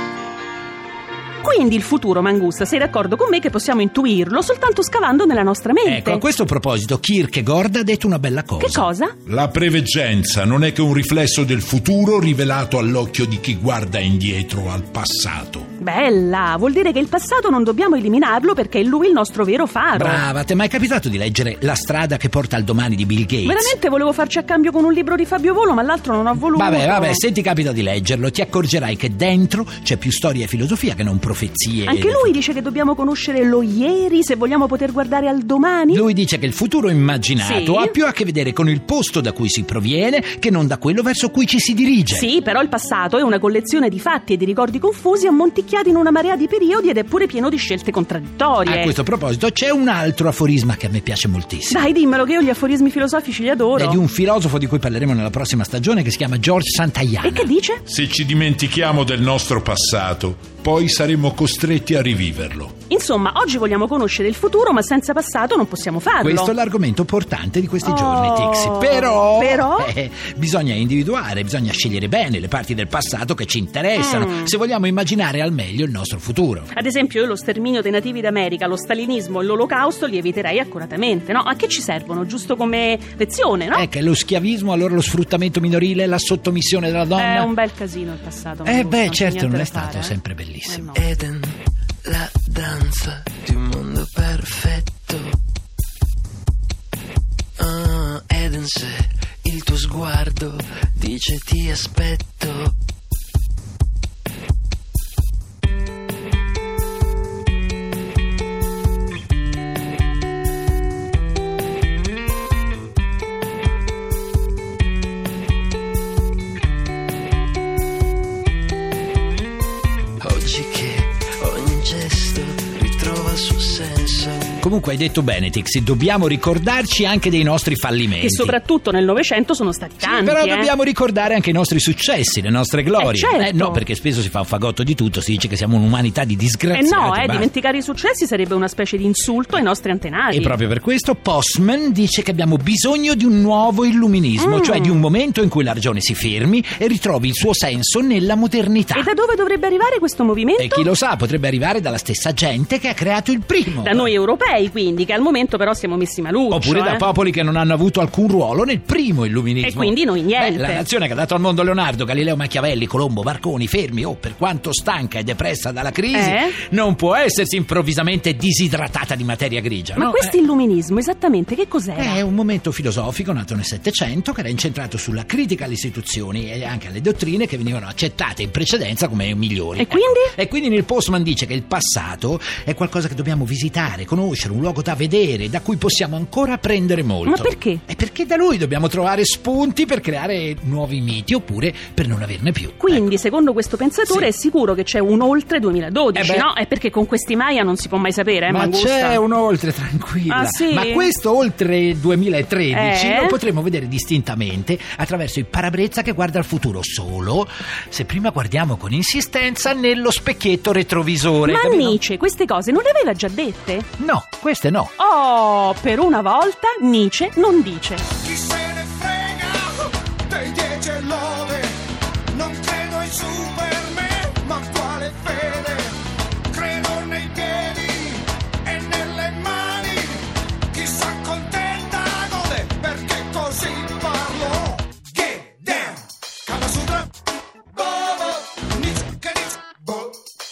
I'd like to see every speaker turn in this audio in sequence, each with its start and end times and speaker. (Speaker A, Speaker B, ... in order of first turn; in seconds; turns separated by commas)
Speaker A: 1.4-6.2, Speaker B: 5.8-8.9, Speaker A: 8.6-9.1, Speaker C: 9.2-15.6, Speaker A: 15.8-20.2, Speaker B: 19.9-23.7, Speaker A: 23.4-27.2, Speaker B: 26.5-32.3, Speaker A: 31.8-36.0, Speaker B: 35.9-42.3, Speaker A: 37.4-37.9, Speaker A: 42.1-49.0, Speaker B: 48.6-51.9, Speaker A: 51.7-54.0, Speaker B: 53.7-57.5, Speaker A: 57.2-57.8, Speaker C: 57.9-62.7, Speaker A: 62.9-66.5, Speaker B: 66.2-76.7, Speaker A: 67.8-69.9, Speaker A: 74.0-74.5, Speaker A: 76.7-83.9, Speaker B: 83.7-87.5, Speaker A: 87.2-91.1, Speaker B: 88.6-90.9, Speaker D: 90.9-95.3, Speaker D: 97.6-102.7, Speaker D: 120.2-124.5, Speaker B: 124.6-128.6, Speaker A: 128.2-130.7, Speaker B: 130.0-137.5, Speaker A: 133.0-133.8, Speaker A: 136.7-140.6, Speaker B: 140.3-149.1, Speaker A: 144.4-145.0, Speaker A: 148.9-150.9, Speaker B: 150.6-154.1, Speaker A: 153.8-157.1, Speaker B: 156.5-170.4, Speaker A: 159.6-160.8, Speaker A: 166.1-166.6, Speaker A: 169.9-172.2, Speaker B: 171.9-193.1, Speaker A: 179.8-180.3, Speaker A: 187.2-187.8, Speaker A: 192.8-199.2, Speaker B: 194.1-194.3, Speaker B: 196.1-196.5, Speaker B: 198.5-212.0, Speaker A: 200.3-201.1, Speaker A: 202.7-203.4, Speaker A: 211.4-213.9, Speaker B: 214.0-214.9, Speaker A: 215.0-218.1, Speaker E: 218.2-237.1, Speaker E: 237.7-240.2